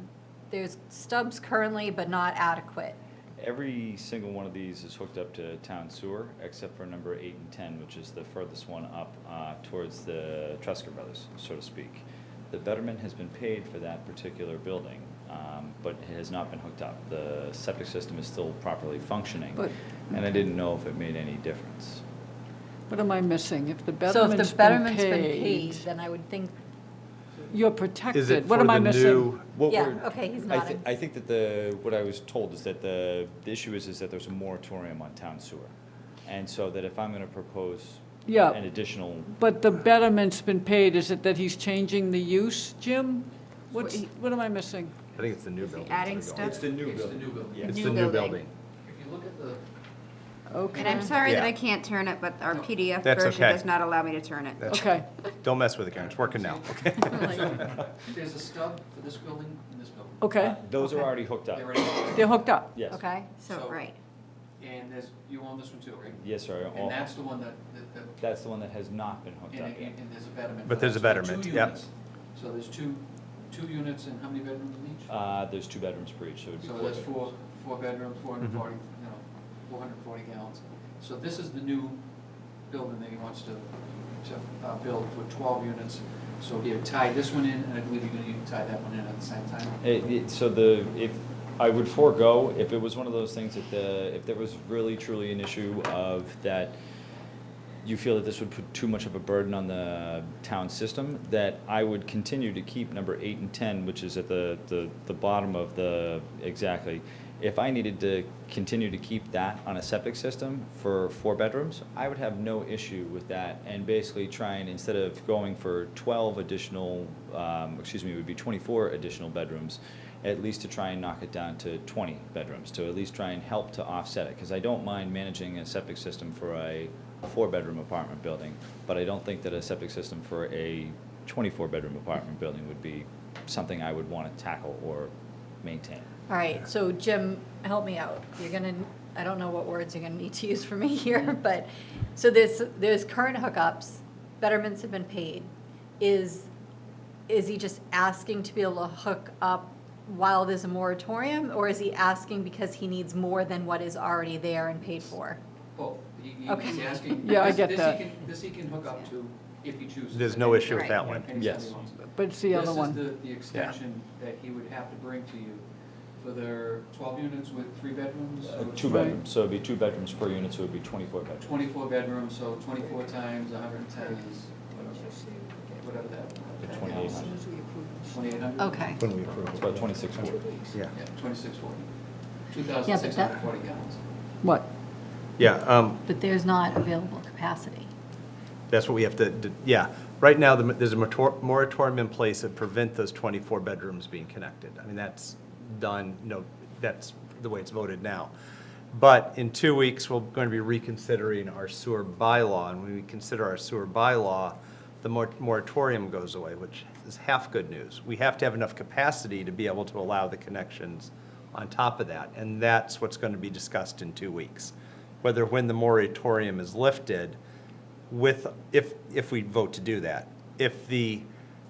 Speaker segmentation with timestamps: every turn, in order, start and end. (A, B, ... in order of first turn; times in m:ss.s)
0:00.5-0:03.0 A
0:03.4-0:22.0 B
0:19.6-0:20.4 C
0:22.9-0:25.8 C
0:24.1-0:26.6 A
0:27.5-0:29.3 C
0:28.1-0:29.4 D
0:29.5-0:35.7 B
0:29.7-0:30.8 A
0:36.3-0:39.3 B
0:38.3-0:38.6 C
0:39.3-0:45.0 C
0:43.7-0:44.0 E
0:45.2-0:46.6 D
0:45.6-0:46.6 E
0:46.4-0:47.6 B
0:46.5-0:47.9 F
0:47.6-0:48.5 D
0:47.7-0:48.4 E
0:48.8-0:49.6 F
0:50.5-0:51.2 C
0:50.7-0:51.0 F
0:50.8-0:54.8 E
0:51.2-0:51.6 D
0:53.0-0:53.6 D
0:54.6-0:57.6 D
0:54.7-0:55.1 C
0:56.0-1:00.3 F
1:00.2-1:00.6 C
1:00.4-1:01.8 B
1:01.4-1:02.6 F
1:02.2-1:02.7 C
1:02.7-1:03.0 B
1:02.9-1:03.4 A
1:03.4-1:04.0 E
1:03.5-1:03.8 F
1:04.6-1:08.2 F
1:06.2-1:07.0 B
1:08.2-1:09.9 B
1:09.5-1:15.1 F
1:10.7-1:11.7 D
1:15.1-1:17.3 B
1:16.6-1:22.0 F
1:22.7-1:29.8 F
1:29.8-1:36.8 B
1:37.8-2:15.1 B
2:15.6-2:16.0 B
2:16.3-2:26.5 A
2:27.3-2:35.4 A
2:35.8-2:45.6 F
2:36.5-2:37.0 A
2:37.2-2:38.1 C
2:40.1-2:41.3 D
2:41.3-2:41.8 B
2:42.0-2:43.1 C
2:46.2-2:49.2 F
2:48.4-2:51.6 B
2:48.9-2:49.2 C
2:51.4-2:57.5 F
2:53.9-2:54.2 C
2:54.8-2:55.8 C
2:56.6-2:57.4 B
2:57.0-2:58.4 C
2:58.0-2:59.0 F
2:58.6-2:59.0 A
2:59.0-3:00.9 D
2:59.5-3:00.4 B
3:00.2-3:00.7 C
3:00.9-3:01.9 F
3:02.5-3:04.0 F
3:02.9-3:03.4 A
3:04.4-3:04.7 C
3:05.4-3:06.0 D
3:06.1-3:07.9 A
3:08.7-3:18.3 D
3:18.9-3:37.4 D
3:38.1-3:41.3 D